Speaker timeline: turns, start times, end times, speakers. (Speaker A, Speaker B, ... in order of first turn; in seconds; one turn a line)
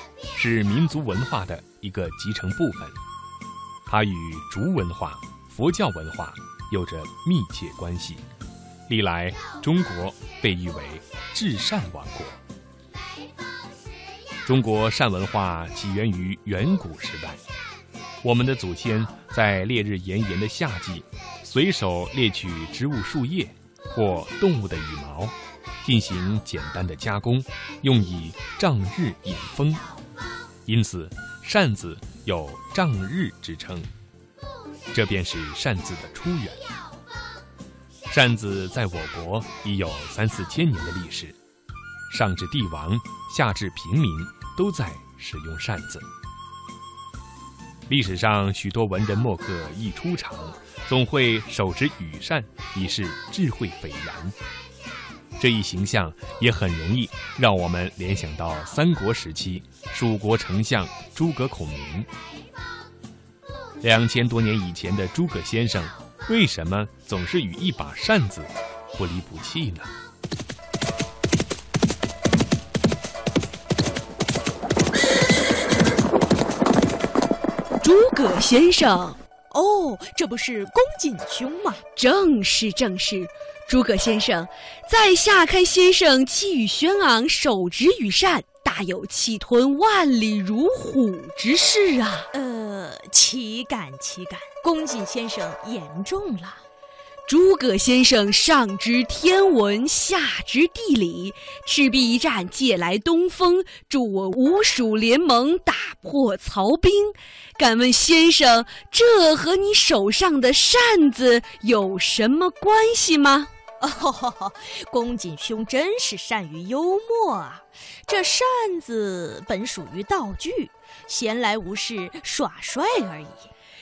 Speaker A: 0.3-3.0
Speaker A: 3.9-8.2
Speaker A: 8.9-12.4
Speaker A: 14.4-17.4
Speaker A: 18.2-29.8
Speaker A: 30.6-33.9
Speaker A: 34.9-36.6
Speaker A: 38.1-41.4
Speaker A: 42.1-46.1
Speaker A: 47.9-54.4
Speaker A: 55.4-62.1
Speaker A: 63.8-69.9
Speaker B: 77.8-79.2
Speaker C: 79.5-81.8
Speaker B: 81.9-92.3
Speaker C: 92.3-96.6
Speaker B: 97.3-113.5
Speaker C: 113.8-123.5